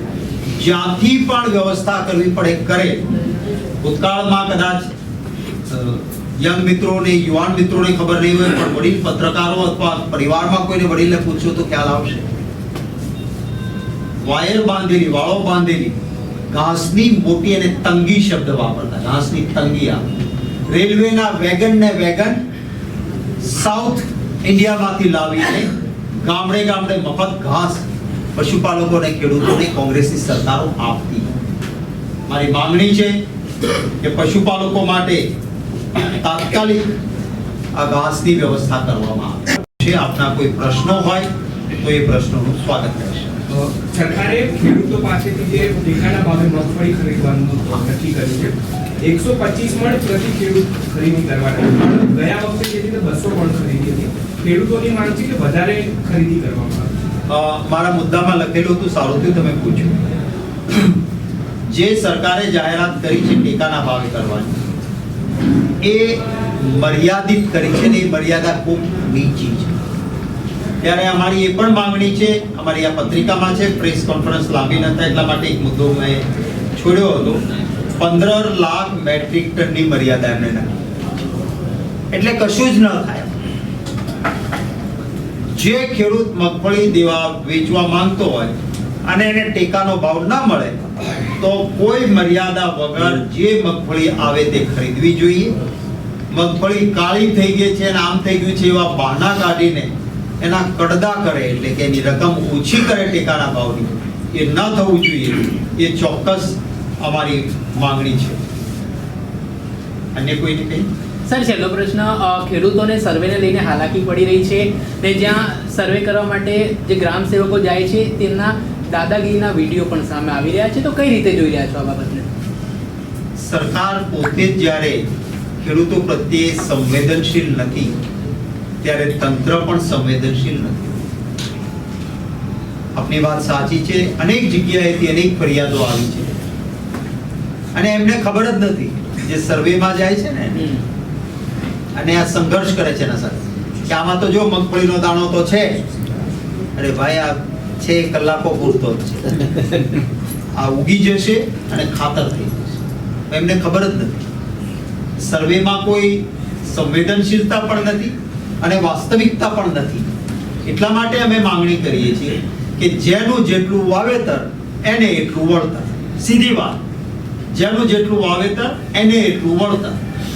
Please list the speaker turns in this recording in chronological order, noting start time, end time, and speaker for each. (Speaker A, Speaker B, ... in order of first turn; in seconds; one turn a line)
Speaker A: 0.6-3.0
Speaker A: 3.8-4.9
Speaker A: 5.7-12.3
Speaker A: 14.2-16.0
Speaker A: 16.5-20.0
Speaker A: 20.7-22.4
Speaker A: 23.4-25.7
Speaker A: 26.2-31.3
Speaker A: 32.3-33.2
Speaker A: 34.0-35.2
Speaker A: 36.0-36.9
Speaker A: 37.7-43.4
Speaker B: 43.5-56.9
Speaker A: 57.3-60.0
Speaker A: 61.7-64.6
Speaker A: 65.8-69.8
Speaker A: 70.8-77.4
Speaker A: 78.0-80.8
Speaker A: 82.1-83.3
Speaker A: 85.5-90.8
Speaker A: 91.3-95.5
Speaker A: 96.3-108.4
Speaker A: 110.2-110.9
Speaker C: 111.3-122.3
Speaker A: 123.4-125.0
Speaker A: 125.6-127.9
Speaker A: 128.8-131.1
Speaker A: 132.9-136.4
Speaker A: 137.8-140.7
Speaker C: 140.6-140.8
Speaker A: 141.9-145.9
Speaker A: 146.8-149.5
Speaker A: 150.5-154.2
Speaker A: 155.2-160.1
Speaker A: 160.7-166.8
Speaker A: 167.5-170.0